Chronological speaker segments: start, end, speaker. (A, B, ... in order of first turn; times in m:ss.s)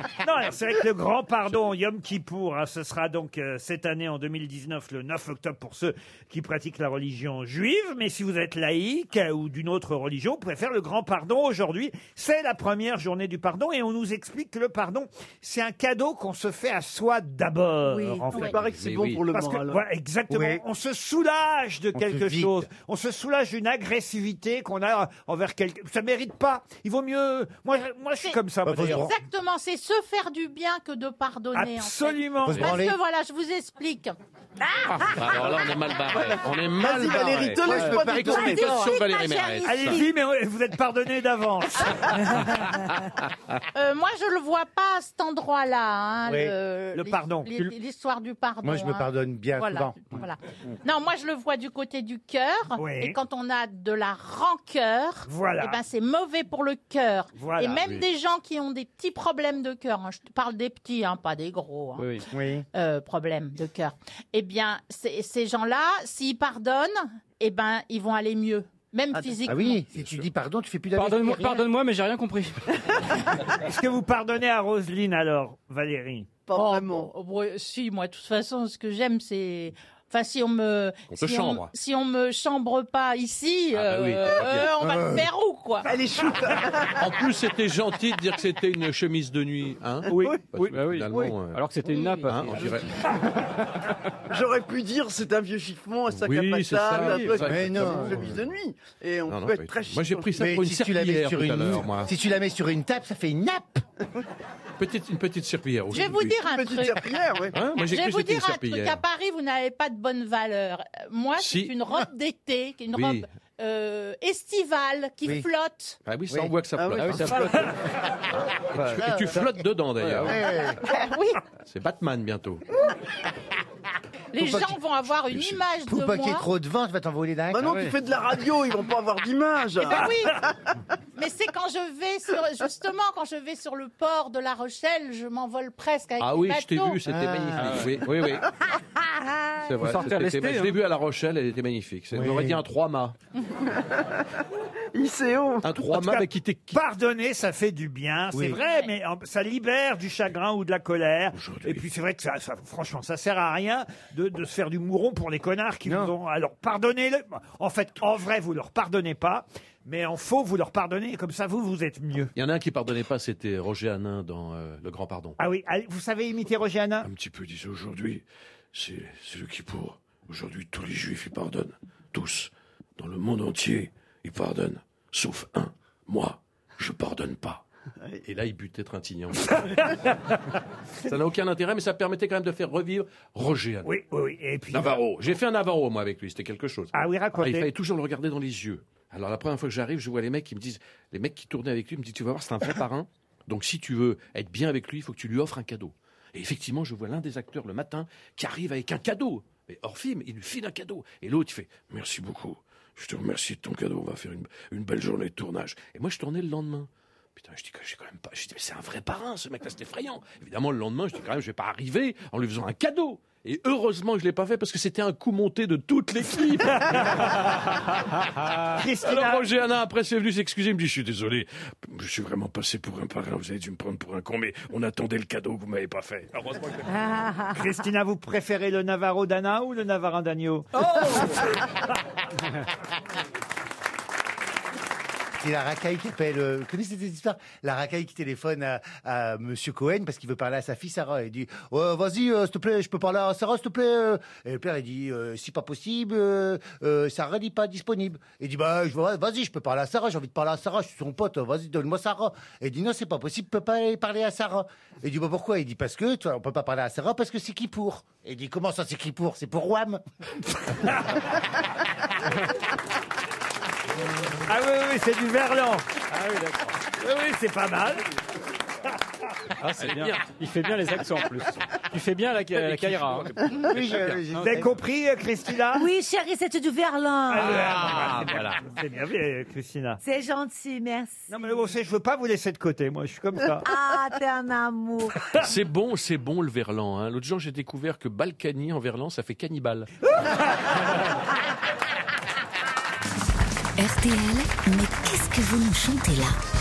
0:00.2-0:18.5 A
0:17.9-0:18.5 B
0:18.4-0:19.8 C
0:18.6-0:19.2 D
0:19.3-0:29.1 A
0:20.3-0:20.6 E
0:21.9-0:22.5 E
0:28.6-0:29.1 E
0:28.9-0:34.2 F
0:31.5-0:32.8 A
0:32.5-0:32.9 E
0:34.9-0:40.0 D
0:36.1-0:38.7 C
0:37.4-0:38.7 E
0:38.1-0:40.1 F
0:39.6-0:42.4 A
0:43.7-1:02.1 F
0:46.2-0:46.5 E
0:46.9-0:47.6 A
0:48.6-0:50.0 E
0:52.8-0:53.2 A
0:55.3-0:55.8 A
0:57.4-0:57.8 A
1:02.0-1:02.2 G
1:02.3-1:02.6 E
1:02.7-1:09.8 F
1:09.1-1:09.5 C
1:09.4-1:11.6 E
1:09.9-1:10.2 D
1:10.9-1:12.7 G
1:13.6-1:16.3 A
1:16.4-1:17.1 C
1:16.5-1:25.9 F
1:21.1-1:21.7 D
1:23.7-1:24.7 D
1:24.8-1:25.3 E
1:25.8-1:27.1 C
1:27.0-1:31.6 D
1:30.1-1:30.4 C
1:30.6-1:33.6 G
1:32.2-1:33.0 D
1:34.3-1:40.5 C
1:36.1-1:38.3 D
1:37.0-1:37.4 G
1:37.4-1:38.4 E
1:39.3-1:42.1 D
1:40.4-1:43.8 E
1:44.8-1:46.4 D
1:45.9-1:47.0 F
1:46.4-1:47.6 C
1:47.5-1:49.0 D
1:47.7-1:56.0 F
1:51.4-1:51.7 D
1:52.9-1:53.3 D
1:56.0-1:57.7 D
1:56.8-1:57.4 C
1:57.0-1:57.7 G
1:58.5-2:00.4 D
1:58.8-1:59.5 E
2:00.0-2:00.3 G
2:00.2-2:00.8 E
2:00.8-2:01.4 F
2:01.6-2:02.6 D
2:04.3-2:06.5 F
2:04.3-2:04.8 E
2:05.7-2:07.9 E
2:07.5-2:10.5 C
2:09.8-2:10.4 F
2:11.2-2:17.0 F
2:16.2-2:18.5 D
2:17.1-2:17.9 E
2:17.6-2:17.9 G
2:19.1-2:19.5 B
2:19.6-2:23.2 D
2:19.8-2:20.8 G
2:22.1-2:22.6 E
2:23.6-2:24.2 C
2:24.9-2:25.8 C
2:25.6-2:26.8 D
2:25.8-2:42.3 A
2:28.3-2:28.6 E
2:31.3-2:31.8 D
2:35.8-2:36.1 E
2:42.4-2:45.4 D
2:45.4-2:47.1 A
2:47.0-2:57.6 D
2:58.2-2:59.9 D
3:01.0-3:03.9 D
3:03.8-3:05.0 A
3:04.7-3:37.3 D
3:06.9-3:07.7 A
3:38.7-3:39.5 A
3:39.0-3:46.8 D
3:46.9-3:47.6 B
3:47.5-3:51.6 A
3:51.0-3:51.3 G
3:55.4-4:20.0 E
4:24.4-4:25.8 A
4:26.1-4:26.7 G
4:27.0-4:28.0 A
4:29.6-4:33.3 G
4:29.8-4:30.2 D
4:32.5-4:34.2 D
4:33.6-4:34.7 E
4:34.3-4:34.6 G
4:34.4-4:35.9 A
4:35.7-4:38.2 B
4:37.3-4:40.0 A
4:37.4-4:38.6 D
4:40.0-4:41.3 B
4:41.3-4:43.7 A
4:43.6-4:45.3 B
4:45.3-4:49.9 D
4:53.8-4:56.4 H